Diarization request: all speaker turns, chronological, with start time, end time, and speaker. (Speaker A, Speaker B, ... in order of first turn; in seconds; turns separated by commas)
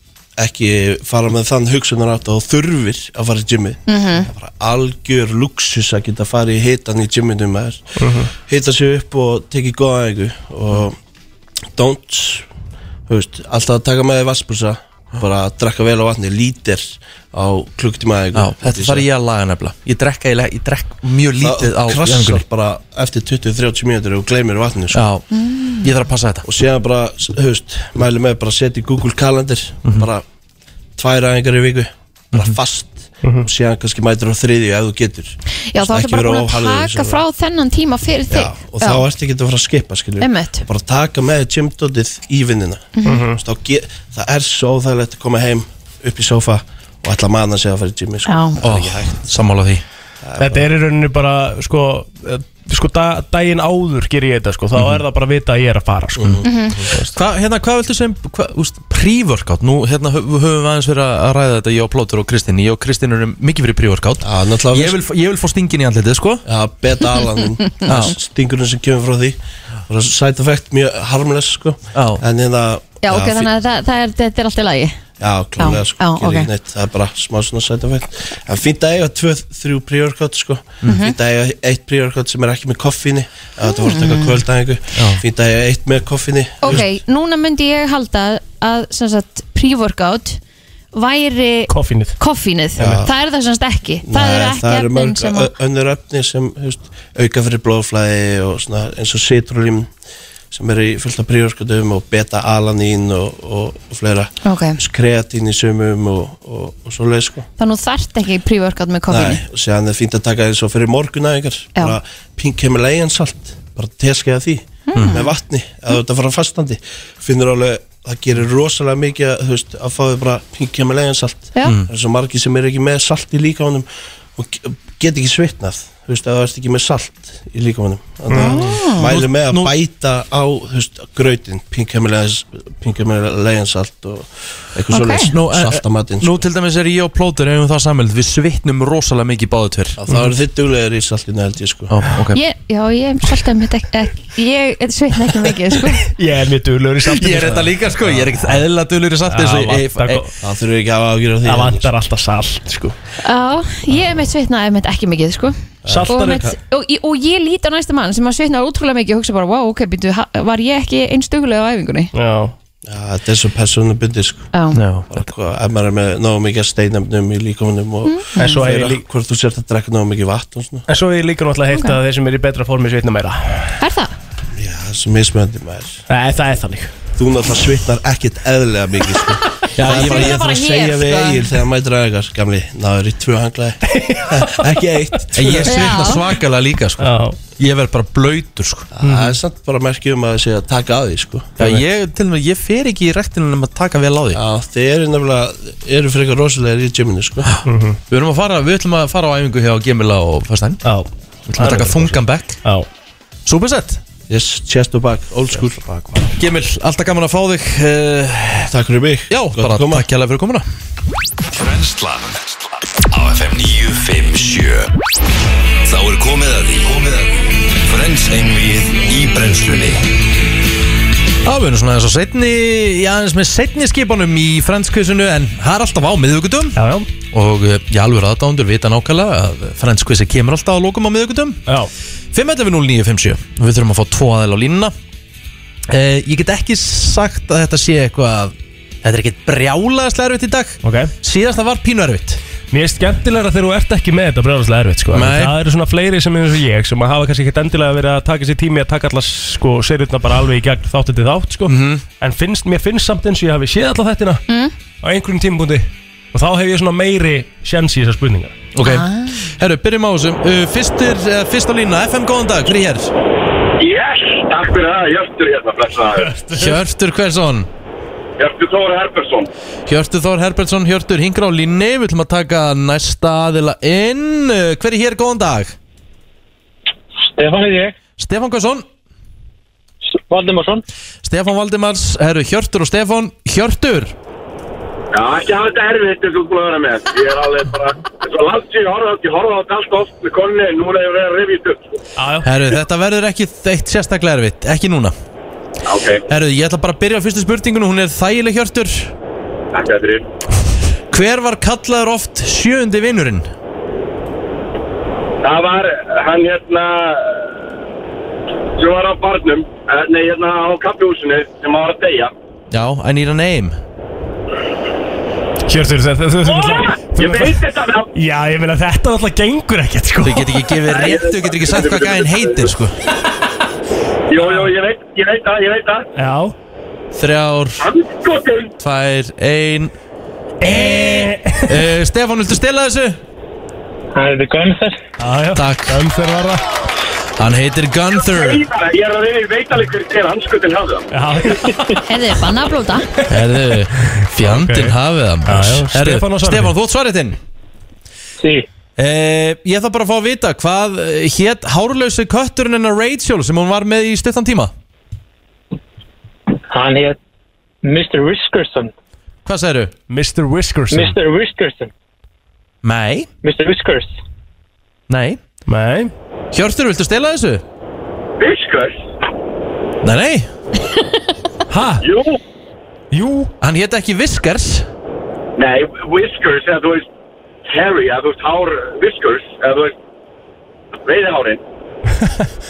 Speaker A: 0.4-7.8, Speaker B: 3.9-4.3, Speaker C: 8.0-8.3, Speaker A: 8.4-11.0, Speaker A: 11.8-12.5, Speaker A: 13.1-19.1, Speaker D: 18.3-22.4, Speaker A: 21.4-25.0, Speaker D: 24.9-25.2, Speaker B: 25.3-25.9, Speaker D: 25.8-26.5, Speaker A: 26.4-30.2, Speaker A: 31.0-37.2, Speaker B: 35.7-39.0, Speaker A: 38.3-49.3, Speaker B: 40.2-40.7, Speaker B: 43.0-43.2, Speaker C: 43.0-43.4, Speaker B: 48.3-48.6, Speaker D: 48.6-49.8, Speaker A: 50.2-50.6, Speaker C: 50.4-57.1, Speaker D: 54.8-55.0, Speaker A: 56.2-57.0, Speaker B: 56.4-56.8, Speaker D: 57.1-66.5, Speaker A: 64.2-65.0, Speaker A: 66.5-73.5, Speaker D: 67.9-68.2, Speaker D: 72.0-72.2, Speaker B: 73.0-75.0, Speaker A: 75.2-86.9, Speaker B: 75.6-76.5, Speaker B: 80.8-81.1, Speaker B: 83.8-84.4, Speaker D: 84.9-85.2, Speaker B: 86.6-90.4, Speaker B: 90.9-95.5, Speaker C: 91.7-92.2, Speaker A: 92.8-93.1, Speaker A: 94.0-99.9, Speaker A: 100.5-107.5, Speaker B: 104.4-104.8, Speaker B: 107.6-109.4, Speaker A: 109.1-136.4, Speaker B: 114.9-115.3, Speaker D: 114.9-115.2, Speaker C: 128.3-128.6, Speaker B: 128.3-129.1, Speaker D: 129.0-129.7, Speaker B: 134.9-135.3, Speaker D: 135.3-140.0, Speaker A: 140.0-142.0, Speaker C: 140.1-140.3, Speaker D: 141.9-142.4, Speaker B: 142.3-146.1, Speaker C: 146.1-148.6, Speaker D: 147.1-150.3, Speaker C: 149.3-150.3, Speaker A: 150.4-151.9, Speaker C: 151.4-152.9, Speaker B: 153.2-155.6, Speaker A: 155.8-156.6, Speaker C: 155.9-156.4, Speaker B: 156.1-162.1, Speaker C: 162.1-162.5, Speaker A: 162.9-164.5, Speaker B: 164.5-164.8, Speaker D: 164.8-165.3, Speaker A: 165.1-170.8, Speaker B: 168.1-168.6, Speaker C: 168.4-169.0, Speaker C: 170.9-173.8, Speaker B: 171.7-172.0, Speaker B: 173.8-174.1, Speaker A: 174.6-176.0, Speaker C: 176.1-176.9, Speaker A: 177.2-186.1, Speaker D: 179.8-180.4, Speaker B: 179.9-181.5, Speaker C: 183.9-184.7, Speaker D: 185.3-188.9, Speaker B: 185.7-186.2, Speaker C: 187.0-187.4, Speaker A: 188.9-191.6, Speaker C: 189.0-189.4, Speaker D: 191.6-194.4, Speaker A: 194.3-197.5, Speaker D: 197.4-200.8, Speaker C: 197.7-198.0, Speaker C: 200.8-202.9, Speaker D: 201.5-202.6, Speaker D: 203.5-204.0, Speaker A: 204.3-206.2, Speaker D: 206.4-208.7, Speaker A: 208.7-210.1, Speaker D: 209.3-210.7, Speaker E: 211.5-214.9, Speaker E: 215.8-220.1, Speaker D: 221.4-231.6, Speaker C: 226.8-227.1, Speaker D: 232.3-234.9, Speaker D: 235.9-242.4, Speaker C: 240.8-241.1, Speaker C: 242.7-254.4, Speaker D: 245.1-245.6, Speaker D: 251.7-252.0, Speaker B: 254.5-254.7, Speaker C: 255.0-258.6, Speaker D: 258.8-263.1, Speaker B: 258.8-259.4, Speaker F: 263.8-266.3, Speaker C: 266.3-266.8, Speaker D: 266.5-267.7, Speaker F: 268.4-269.5, Speaker D: 269.9-275.8, Speaker G: 277.4-278.0, Speaker D: 278.2-278.9, Speaker G: 280.3-280.8, Speaker D: 281.2-284.1, Speaker F: 285.1-291.8, Speaker C: 292.2-292.5, Speaker D: 292.4-295.1, Speaker F: 295.9-296.2, Speaker D: 296.3-299.1, Speaker F: 299.7-300.2, Speaker D: 301.1-303.5, Speaker F: 305.4-307.4, Speaker F: 308.8-312.3, Speaker D: 312.7-313.8, Speaker C: 315.7-317.6, Speaker F: 316.4-318.1, Speaker C: 318.1-320.6, Speaker D: 320.2-322.9, Speaker F: 320.9-322.7, Speaker F: 324.3-326.1, Speaker C: 326.2-326.5, Speaker D: 327.1-327.8, Speaker F: 327.8-328.7, Speaker D: 328.8-329.9, Speaker C: 330.6-331.9, Speaker D: 330.6-333.2, Speaker G: 334.1-335.0, Speaker C: 335.2-336.6, Speaker D: 335.6-336.0, Speaker D: 337.4-338.6, Speaker F: 338.2-341.0, Speaker C: 341.1-342.0, Speaker B: 342.1-343.1, Speaker D: 343.3-347.4, Speaker C: 344.4-346.7, Speaker G: 348.4-348.7, Speaker D: 349.0-354.7, Speaker G: 356.7-357.2, Speaker G: 357.8-358.9, Speaker D: 359.4-359.9, Speaker C: 360.1-361.2, Speaker G: 360.9-361.9, Speaker D: 362.8-363.3, Speaker G: 363.4-364.1, Speaker D: 365.1-365.4, Speaker C: 365.7-366.1, Speaker D: 366.5-367.6, Speaker F: 368.4-369.0, Speaker D: 370.0-370.5, Speaker C: 371.7-372.0, Speaker F: 372.0-372.4, Speaker C: 373.1-373.5, Speaker D: 373.6-374.9, Speaker F: 375.6-377.1, Speaker F: 377.7-379.9, Speaker F: 381.0-381.6